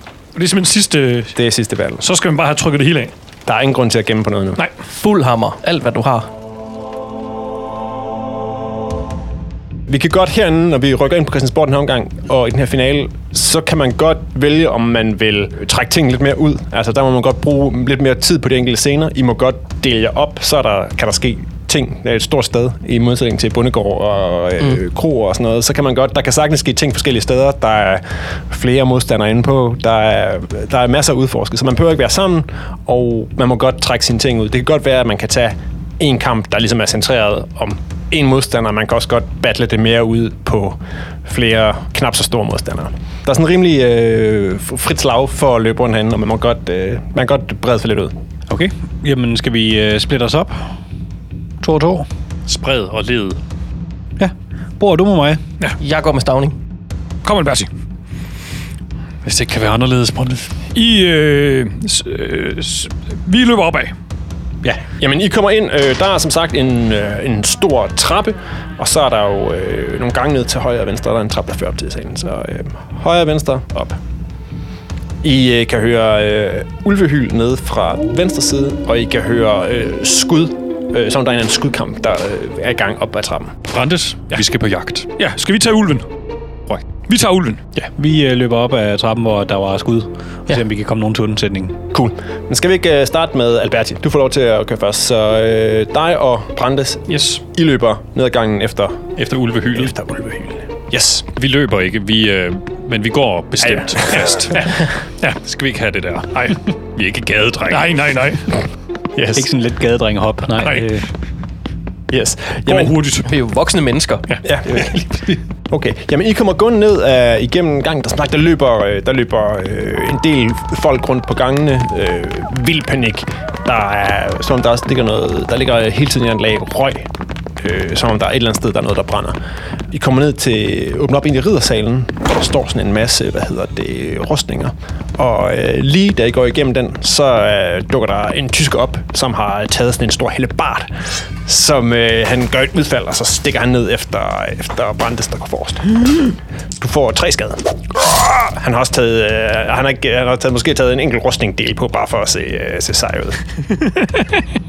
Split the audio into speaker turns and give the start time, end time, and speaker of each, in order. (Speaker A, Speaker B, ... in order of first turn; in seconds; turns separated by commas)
Speaker A: 0.3-1.3, Speaker B: 1.3-2.0, Speaker A: 2.0-3.1, Speaker B: 3.5-4.6, Speaker C: 5.0-6.3, Speaker B: 9.9-48.1, Speaker D: 48.5-50.8, Speaker D: 51.6-52.1, Speaker E: 52.5-53.4, Speaker D: 54.2-55.4, Speaker C: 55.8-56.5, Speaker A: 57.2-57.7, Speaker E: 59.2-60.5, Speaker A: 60.7-63.9, Speaker B: 64.6-74.0, Speaker B: 75.2-83.6, Speaker E: 83.7-85.1, Speaker A: 85.2-86.1, Speaker A: 87.0-87.6, Speaker D: 88.0-91.8, Speaker B: 91.9-99.1, Speaker A: 97.1-97.4, Speaker E: 99.2-100.0, Speaker B: 99.7-101.2, Speaker E: 101.3-104.7, Speaker B: 103.6-104.5, Speaker A: 104.8-105.4, Speaker E: 105.4-107.9, Speaker A: 107.7-108.5, Speaker B: 109.1-109.5, Speaker D: 109.3-111.0, Speaker A: 110.6-110.9, Speaker B: 112.1-112.9, Speaker A: 112.7-113.3, Speaker C: 113.2-114.2, Speaker B: 114.4-114.9, Speaker B: 115.7-127.1, Speaker B: 127.6-129.4, Speaker B: 129.9-140.9, Speaker B: 141.4-153.4